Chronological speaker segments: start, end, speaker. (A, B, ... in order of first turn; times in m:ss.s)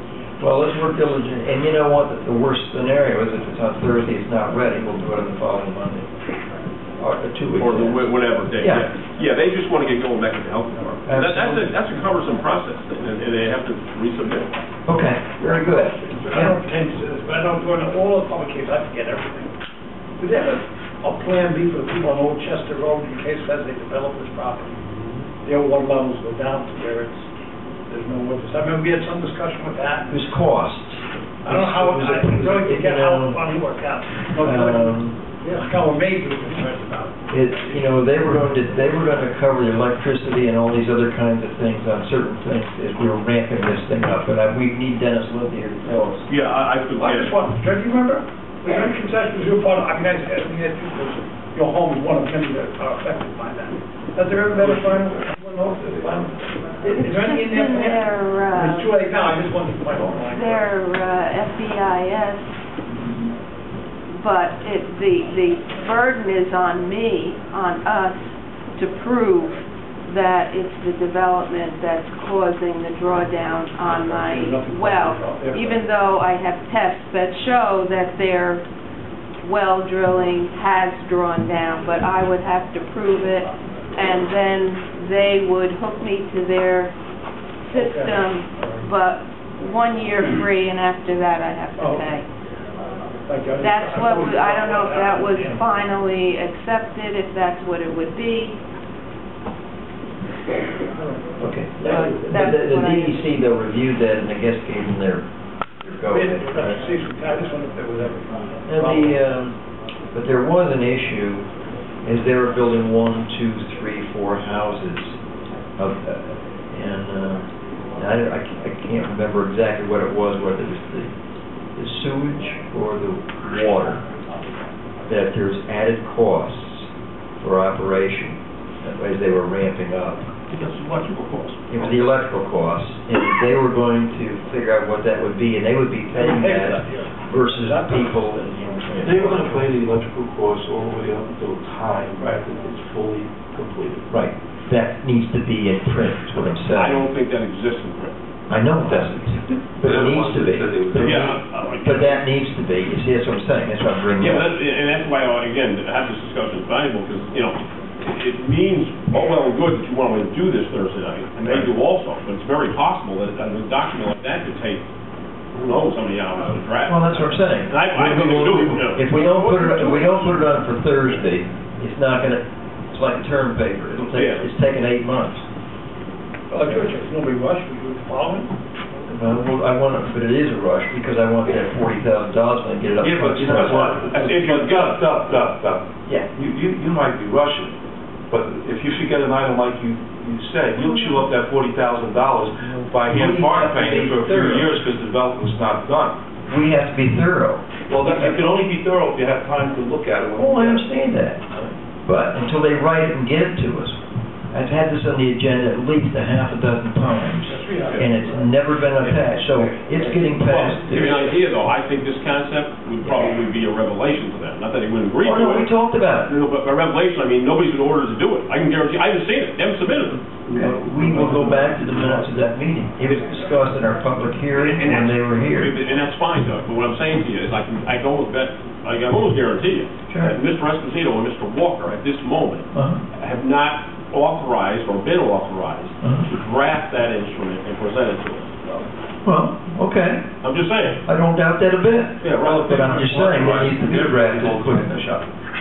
0:00.4-0:06.1 A
0:07.0-0:08.9 A
0:07.6-0:14.5 B
0:11.0-0:11.8 A
0:14.8-0:16.6 A
0:15.6-0:19.5 C
0:20.2-0:24.8 C
0:25.4-0:27.2 C
0:27.9-0:30.1 C
0:30.1-0:33.4 A
0:31.4-0:37.2 C
0:34.4-0:35.2 A
0:37.3-0:46.3 A
0:46.3-0:47.3 B
0:47.0-1:00.7 C
0:54.6-0:55.1 D
0:56.8-0:59.0 E
1:00.2-1:02.5 E
1:04.2-1:18.6 E
1:13.8-1:15.8 C
1:19.4-1:26.9 E
1:27.6-1:32.2 E
1:27.7-1:28.8 C
1:31.8-1:32.0 C
1:33.2-1:35.6 C
1:33.6-1:38.6 E
1:41.0-1:41.2 C
1:41.4-1:45.2 A
1:41.8-1:43.2 E
1:45.8-1:46.8 A
1:46.0-1:49.2 C
1:48.6-1:49.6 A
1:50.1-1:51.4 A
1:52.0-1:55.2 A
1:55.8-2:01.1 A
2:01.8-2:04.0 A
2:05.1-2:06.9 A
2:07.4-2:10.3 A
2:10.5-2:11.8 B
2:11.7-2:19.7 A
2:16.1-2:18.6 C
2:19.0-2:24.1 D
2:24.1-2:27.1 A
2:26.7-2:28.1 B
2:28.5-2:34.5 A
2:28.8-2:31.4 D
2:30.9-2:32.2 B
2:34.2-2:44.8 B
2:41.4-2:41.7 A
2:45.5-2:50.3 B
2:46.9-2:55.4 A
2:54.0-2:54.5 B
2:56.5-2:58.5 C
2:59.1-3:04.3 A
3:03.0-3:07.7 D
3:03.5-3:05.0 B
3:08.3-3:16.2 D
3:10.9-3:11.2 A
3:12.6-3:14.7 A
3:16.5-3:18.4 A
3:17.9-3:20.9 D
3:20.4-3:21.4 A
3:22.0-3:24.0 A
3:24.5-3:31.4 A
3:27.4-3:28.5 C
3:30.4-3:35.7 B
3:33.0-3:33.3 A
3:35.2-3:36.3 A
3:36.2-3:40.3 B
3:40.5-3:45.8 A
3:40.5-3:42.2 D
3:44.5-3:58.8 B
3:50.1-3:50.3 A
3:52.7-3:53.0 A
3:56.0-3:56.3 A
3:59.2-4:00.3 A
4:00.4-4:01.0 B
4:01.0-4:05.0 A
4:02.2-4:02.7 B
4:02.4-4:05.3 D